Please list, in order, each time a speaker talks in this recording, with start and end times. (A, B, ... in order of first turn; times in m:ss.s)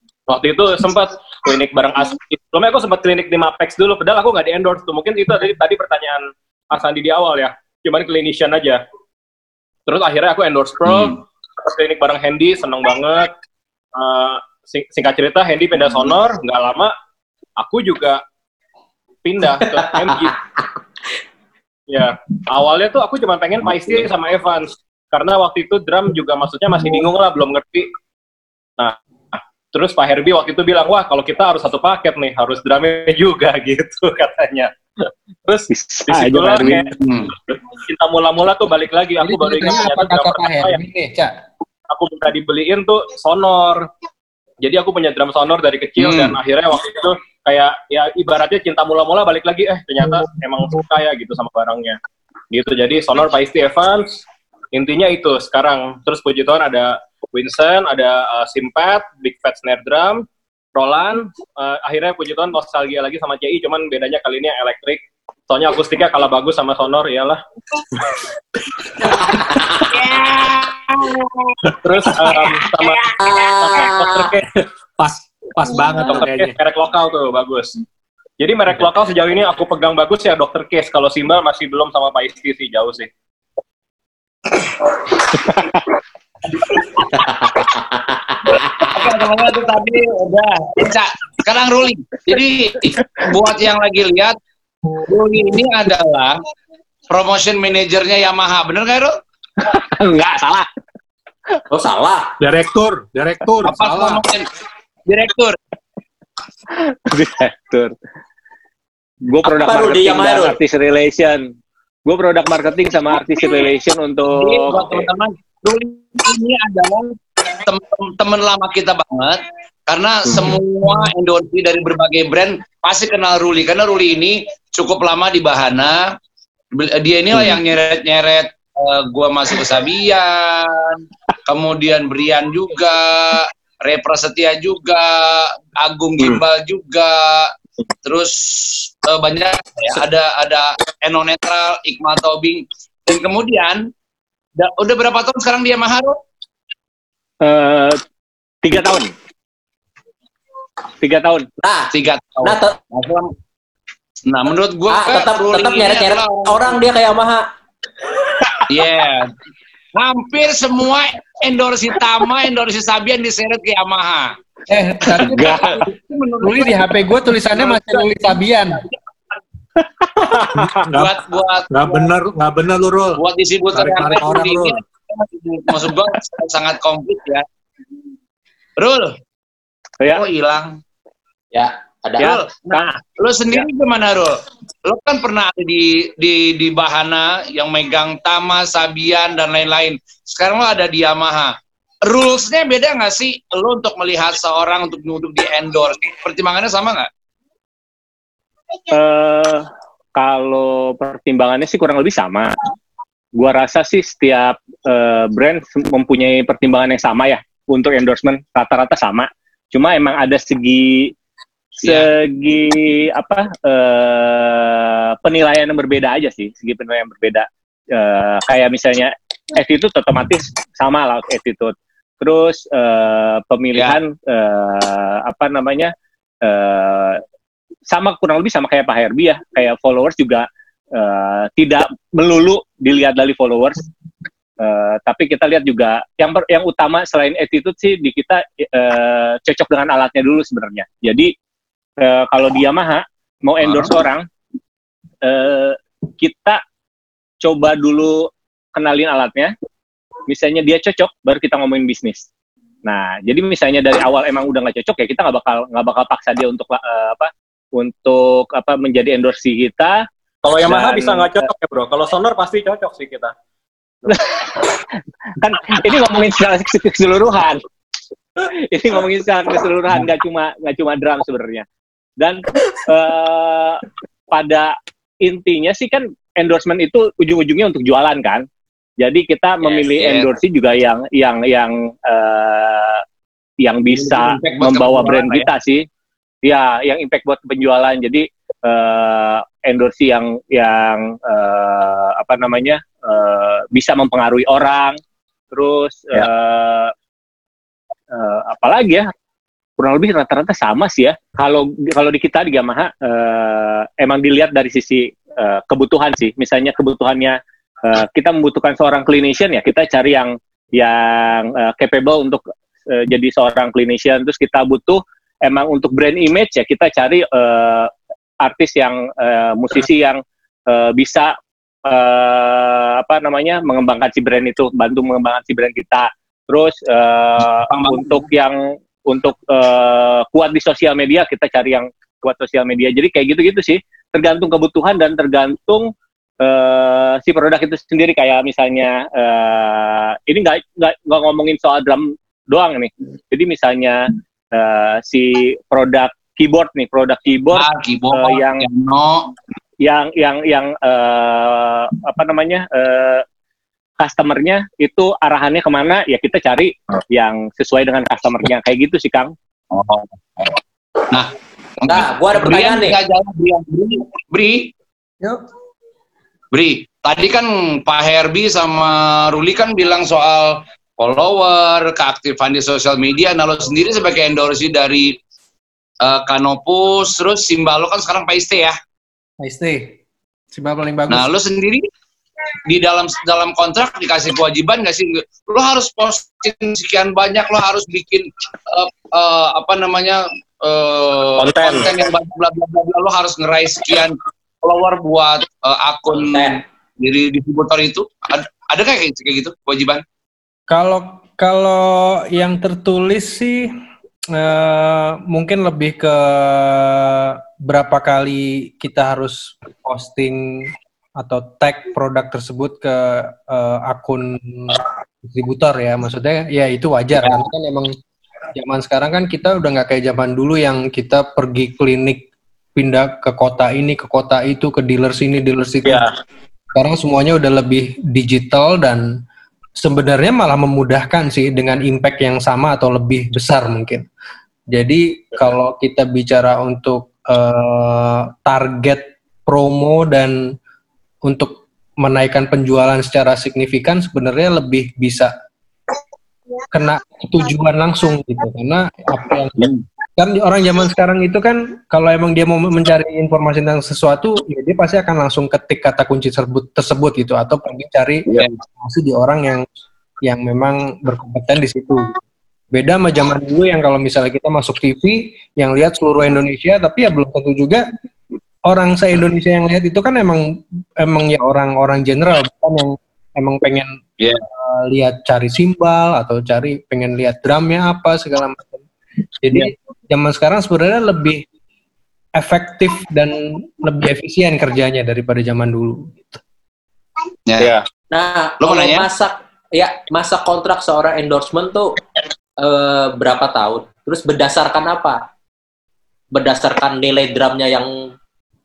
0:00.3-0:08.8 A
0:09.9-0:13.3 A
0:13.9-0:16.9 A
0:17.6-0:18.2 A
0:19.2-0:20.4 A
0:21.9-0:27.9 A
0:28.8-0:40.8 A
0:35.7-0:36.9 B
0:37.0-0:37.3 C
0:39.2-0:41.3 D
0:41.9-0:43.9 A
0:44.6-0:52.0 A
0:46.0-0:46.4 C
0:52.5-1:07.4 A
1:09.3-1:09.8 E
1:09.9-1:11.6 C
1:11.8-1:14.5 A
1:13.2-1:14.3 E
1:14.5-1:16.5 F
1:16.1-1:17.8 A
1:18.4-1:23.1 A
1:27.1-1:28.1 E
1:28.4-1:34.3 C
1:35.0-1:36.4 C
1:37.1-1:39.1 C
1:39.6-1:40.7 B
1:41.7-1:42.3 E
1:42.4-1:44.2 F
1:43.6-1:44.5 C
1:45.1-1:45.6 C
1:47.0-1:47.9 B
1:49.3-1:51.5 B
1:49.4-1:50.6 E
1:52.0-1:55.0 B
1:54.4-2:06.1 C
2:06.7-2:17.5 C
2:18.0-2:23.8 C
2:24.6-2:26.2 C
2:27.4-2:28.0 B
2:28.6-2:29.1 B
2:31.0-2:31.5 B
2:31.6-2:32.8 E
2:31.9-2:33.3 C
2:34.2-2:36.8 C
2:34.9-2:37.5 E
2:38.7-2:39.3 C
2:39.9-2:44.3 C
2:44.7-2:45.6 D
2:45.1-2:48.1 C
2:45.1-2:45.8 B
2:46.4-2:48.8 D
2:50.4-2:50.7 A
2:50.6-2:51.1 F
2:50.9-2:52.1 C
2:51.7-2:53.2 F
2:53.2-2:57.4 C
2:53.7-2:54.8 F
2:58.8-2:59.2 C
3:00.1-3:00.8 C
3:01.5-3:02.4 E
3:02.2-3:03.0 B
3:02.2-3:11.5 C
3:12.0-3:17.1 C
3:18.9-3:22.6 B
3:23.4-3:31.1 B
3:31.8-3:45.9 B
3:31.8-3:32.1 C
3:46.4-3:47.2 B
3:47.9-3:53.8 B
3:54.6-4:01.3 B
4:02.0-4:04.2 B
4:05.2-4:06.6 B
4:07.4-4:09.5 B
4:10.3-4:12.3 B
4:12.8-4:20.0 B
4:20.4-4:23.3 A
4:20.6-4:21.5 B
4:24.1-4:24.7 B
4:25.4-4:27.6 B
4:28.4-4:31.6 B
4:32.2-4:38.4 B
4:39.0-4:43.0 B
4:39.6-4:40.3 C
4:43.6-4:45.8 B
4:43.9-4:45.5 C
4:46.4-4:55.0 B
4:55.5-4:56.9 B
4:58.1-4:59.1 B
4:59.8-5:17.9 B
5:18.4-5:21.3 B
5:21.8-5:35.9 B
5:27.7-5:28.2 C
5:36.4-5:48.6 B
5:47.5-5:49.3 C
5:49.8-5:53.2 B
5:54.0-5:59.3 B
5:59.7-6:04.7 C
6:01.8-6:03.0 E
6:06.5-6:15.2 C
6:16.0-6:18.8 C
6:19.4-6:20.0 D
6:20.5-6:21.3 D
6:21.1-6:21.8 C
6:22.6-6:40.0 C
6:31.4-6:31.9 A
6:36.1-6:36.6 E
6:40.7-6:43.8 D
6:44.3-6:58.0 D
6:58.5-7:06.0 D
7:06.7-7:09.2 D
7:09.8-7:14.1 D
7:14.7-7:20.6 D
7:21.2-7:25.3 D
7:26.7-7:39.6 D
7:38.3-7:38.6 C
7:40.2-7:42.2 D
7:42.7-7:47.9 D
7:48.6-7:54.0 D
7:54.6-7:58.8 D
7:59.4-8:01.4 D
8:02.3-8:06.4 D
8:07.5-8:07.8 C
8:07.6-8:07.8 A
8:08.1-8:12.0 E
8:08.6-8:09.1 C
8:12.6-8:15.3 E
8:16.3-8:18.1 E